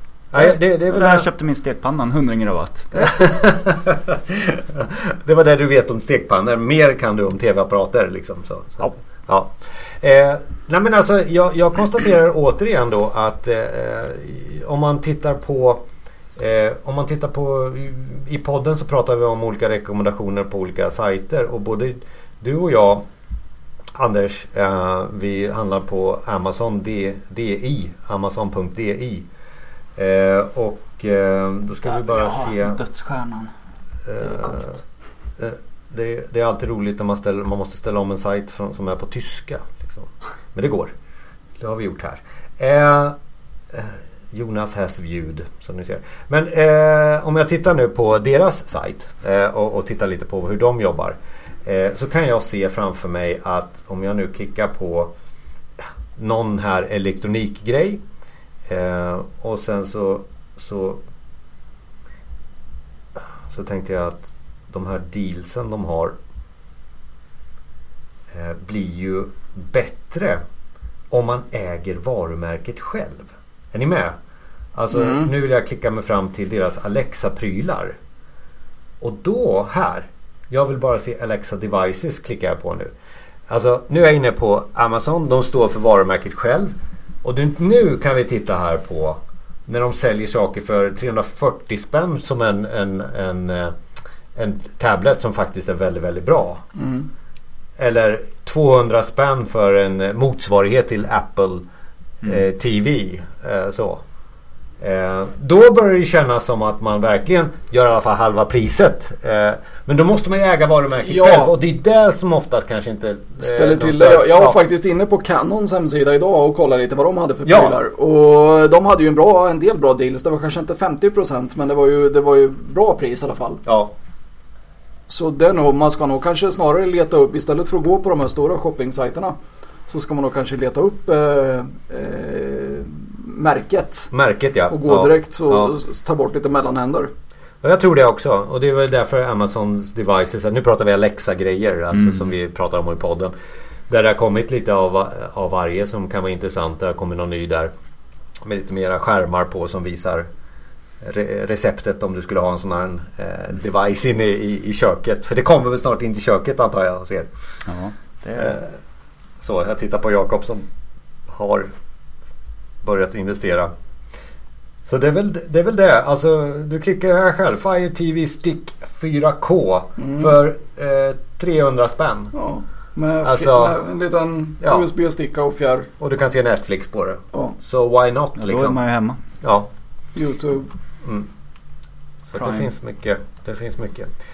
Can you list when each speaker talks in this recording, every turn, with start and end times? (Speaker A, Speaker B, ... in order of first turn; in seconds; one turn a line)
Speaker A: 0.3-1.3
Speaker B: 0.4-3.2
Speaker A: 3.0-15.8
Speaker A: 16.4-23.0
Speaker A: 24.0-29.2
Speaker A: 30.0-32.8
Speaker B: 31.8-33.5
Speaker A: 34.1-34.7
Speaker B: 34.2-34.8
Speaker A: 35.4-40.9
Speaker A: 41.6-43.1
Speaker A: 43.7-55.1
Speaker A: 56.2-58.0
Speaker A: 58.7-61.0
Speaker A: 63.5-66.1
Speaker A: 68.3-70.4
Speaker A: 71.1-74.2
Speaker A: 74.8-78.0
Speaker C: 75.0-75.2
Speaker A: 79.0-82.9
Speaker A: 83.5-93.7
Speaker A: 94.3-96.6
Speaker C: 96.8-97.1
Speaker A: 97.8-101.7
Speaker A: 102.2-104.0
Speaker A: 104.8-114.6
Speaker C: 111.0-111.5
Speaker C: 113.4-123.6
Speaker A: 117.4-117.8
Speaker A: 123.7-123.9
Speaker C: 125.1-129.4
Speaker C: 129.9-134.1
Speaker A: 134.1-135.8
Speaker C: 134.7-137.1
Speaker A: 137.6-143.3
Speaker B: 141.9-142.3
Speaker A: 143.9-147.7
Speaker A: 148.4-150.3
Speaker A: 151.0-157.3
Speaker B: 157.7-158.6
Speaker A: 158.4-158.7
Speaker A: 159.4-160.6
Speaker A: 161.3-161.7
Speaker A: 162.8-163.7
Speaker A: 164.9-172.3
Speaker C: 170.0-170.3
Speaker C: 172.3-175.9
Speaker A: 173.2-173.8
Speaker A: 174.6-174.9
Speaker A: 176.0-178.8
Speaker B: 178.4-179.2
Speaker A: 179.4-179.7
Speaker C: 180.2-180.7
Speaker A: 182.2-184.1
Speaker B: 182.4-182.7